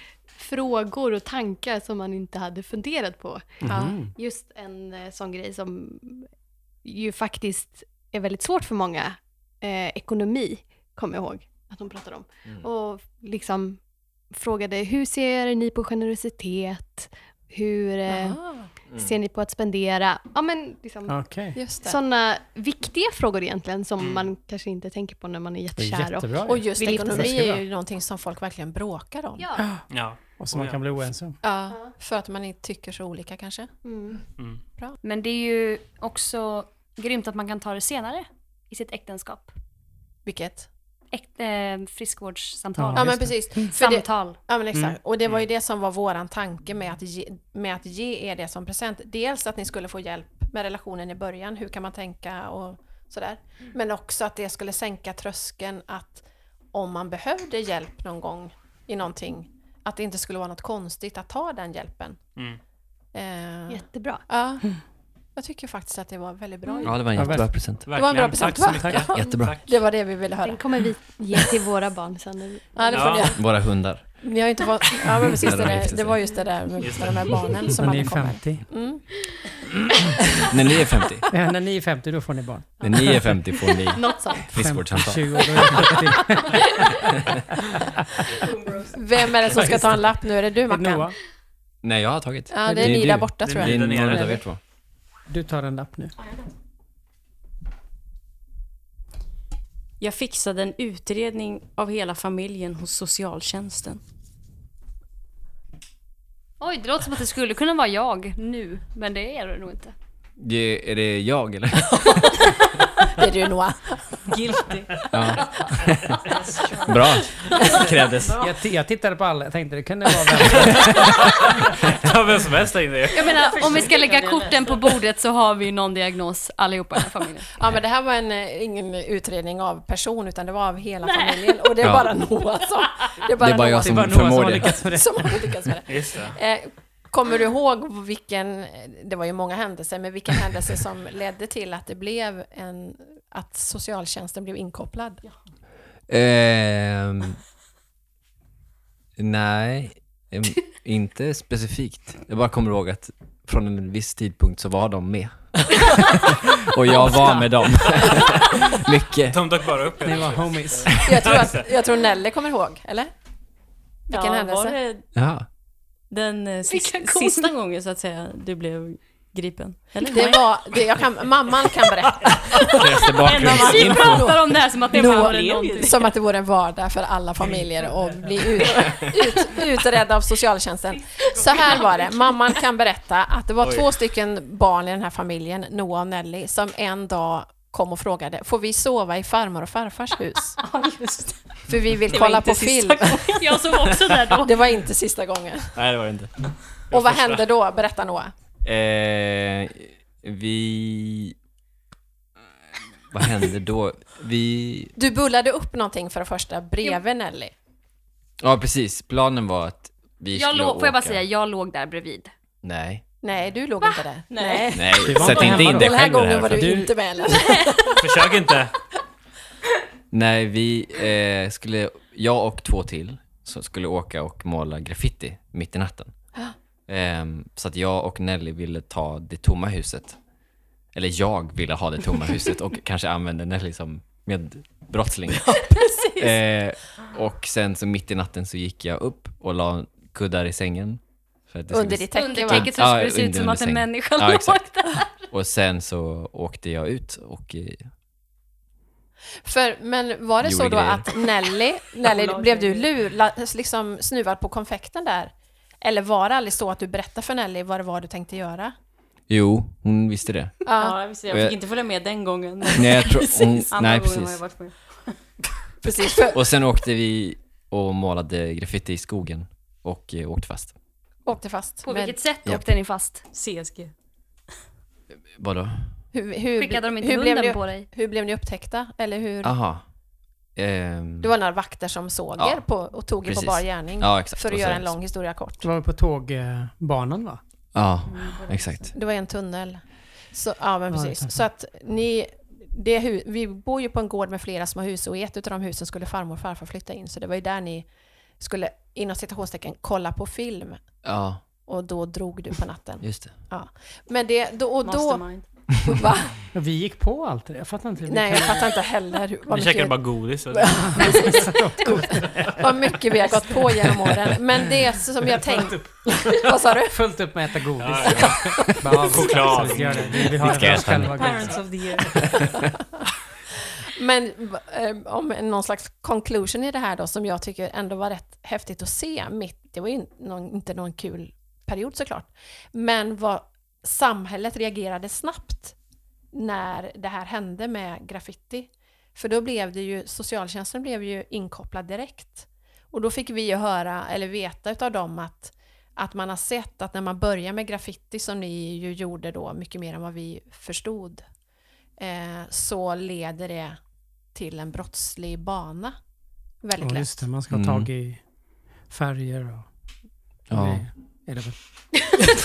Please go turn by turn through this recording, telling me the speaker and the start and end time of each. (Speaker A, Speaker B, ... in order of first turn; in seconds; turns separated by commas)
Speaker A: 0.3-6.3, Speaker B: 3.6-4.1, Speaker C: 3.6-4.0, Speaker A: 6.8-13.8, Speaker A: 14.3-18.4, Speaker C: 18.1-18.7, Speaker A: 18.9-27.4, Speaker B: 21.1-21.6, Speaker C: 21.5-22.0, Speaker D: 24.0-24.3, Speaker B: 25.8-27.6, Speaker C: 26.4-29.5, Speaker B: 29.6-31.4, Speaker D: 29.9-31.0, Speaker C: 31.4-33.7, Speaker A: 33.8-34.2, Speaker D: 34.4-34.6, Speaker E: 35.0-39.5, Speaker C: 40.3-40.7, Speaker E: 41.1-44.4, Speaker B: 42.8-43.7, Speaker C: 43.0-62.2, Speaker D: 44.7-45.4, Speaker C: 63.1-64.8, Speaker A: 63.7-64.2, Speaker C: 65.4-67.0, Speaker A: 66.7-66.9, Speaker F: 66.8-67.9, Speaker B: 67.1-67.6, Speaker D: 67.8-69.8, Speaker C: 67.9-70.6, Speaker B: 68.7-69.1, Speaker F: 69.1-69.5, Speaker A: 70.4-73.3, Speaker C: 72.8-79.1, Speaker D: 72.9-73.3, Speaker F: 73.3-74.0, Speaker F: 75.2-76.2, Speaker D: 76.8-77.4, Speaker B: 77.7-78.7, Speaker F: 80.5-81.3, Speaker B: 81.3-83.3, Speaker F: 82.8-86.1, Speaker G: 84.0-84.4, Speaker B: 84.4-87.1, Speaker A: 88.4-88.8, Speaker C: 88.9-91.1, Speaker B: 89.5-90.1, Speaker B: 90.6-91.2, Speaker F: 91.8-94.6, Speaker C: 92.5-94.0, Speaker B: 92.6-93.3, Speaker D: 93.4-94.4, Speaker B: 94.0-94.4, Speaker B: 95.3-96.1, Speaker G: 100.0-104.0, Speaker E: 106.6-109.9, Speaker F: 110.4-112.4, Speaker C: 113.1-114.2, Speaker G: 114.3-115.0, Speaker F: 115.1-116.2, Speaker G: 116.3-117.0, Speaker F: 116.8-118.5, Speaker G: 117.5-118.5, Speaker B: 118.4-121.7, Speaker D: 120.5-123.6, Speaker E: 123.1-127.5, Speaker G: 123.1-125.0, Speaker C: 127.5-134.1, Speaker E: 131.1-131.7, Speaker F: 131.8-132.1, Speaker F: 133.4-134.8, Speaker B: 133.8-135.8, Speaker C: 134.6-145.2, Speaker D: 135.9-136.4, Speaker F: 146.1-147.4, Speaker F: 149.2-159.4, Speaker B: 156.9-157.6, Speaker D: 159.3-161.7, Speaker B: 160.0-161.0, Speaker C: 161.0-163.1, Speaker G: 164.1-165.1, Speaker C: 164.1-164.8, Speaker F: 165.1-165.4, Speaker G: 166.1-170.4, Speaker E: 166.7-167.5, Speaker E: 170.0-170.4, Speaker C: 170.1-172.7, Speaker F: 172.7-174.6, Speaker E: 173.2-176.0, Speaker G: 173.3-176.1, Speaker C: 174.9-190.6, Speaker B: 177.4-178.2, Speaker G: 181.4-181.9, Speaker D: 183.6-183.9, Speaker G: 190.6-194.4, Speaker C: 191.7-193.4, Speaker E: 193.4-194.6, Speaker C: 194.4-195.8, Speaker F: 195.8-196.3, Speaker D: 196.4-197.4, Speaker C: 196.9-198.3, Speaker F: 198.6-201.3, Speaker F: 203.1-204.9, Speaker C: 204.9-207.5, Speaker F: 208.4-211.2, Speaker E: 210.3-212.3, Speaker F: 212.6-213.0, Speaker C: 213.2-218.4, Speaker G: 214.3-214.9, Speaker F: 214.7-216.9, Speaker B: 215.0-216.9, Speaker D: 218.0-218.7, Speaker F: 220.1-226.1, Speaker F: 226.9-230.2, Speaker F: 230.9-247.9, Speaker C: 241.7-242.7, Speaker E: 242.1-245.3, Speaker C: 249.4-258.7, Speaker F: 250.4-251.1, Speaker G: 252.0-252.9, Speaker F: 259.3-260.6, Speaker C: 260.6-261.0, Speaker G: 260.7-265.2, Speaker F: 261.3-261.6, Speaker F: 262.7-264.4, Speaker C: 265.8-266.4, Speaker F: 266.3-270.7, Speaker C: 271.3-272.2, Speaker E: 271.8-273.2, Speaker G: 273.3-273.9, Speaker F: 275.3-275.9, Speaker C: 276.1-279.5, Speaker E: 276.6-277.9, Speaker F: 279.4-279.8, Speaker F: 280.6-281.3, Speaker C: 281.2-285.7, Speaker F: 282.4-282.6, Speaker F: 283.2-284.9, Speaker B: 285.6-287.4, Speaker F: 287.7-288.9, Speaker E: 288.1-288.5, Speaker G: 288.5-288.9, Speaker C: 288.9-297.9, Speaker B: 290.9-291.4, Speaker C: 298.4-300.8, Speaker F: 301.0-301.4, Speaker C: 301.7-305.2, Speaker F: 303.0-303.3, Speaker G: 304.8-305.4, Speaker C: 305.8-306.4, Speaker B: 306.5-308.8, Speaker C: 308.1-317.0, Speaker D: 309.5-311.3, Speaker B: 310.7-312.7, Speaker D: 312.2-312.5, Speaker B: 313.2-313.7, Speaker B: 314.9-322.1, Speaker D: 317.8-320.8, Speaker C: 318.1-318.6, Speaker F: 318.8-321.5, Speaker G: 321.1-322.5, Speaker F: 322.2-322.6, Speaker C: 323.7-335.8, Speaker C: 336.3-351.3, Speaker C: 352.0-353.8, Speaker C: 354.3-355.9, Speaker C: 356.6-357.3, Speaker B: 356.8-358.2, Speaker F: 357.5-357.9, Speaker B: 358.9-359.7, Speaker F: 360.5-360.9, Speaker B: 360.5-361.6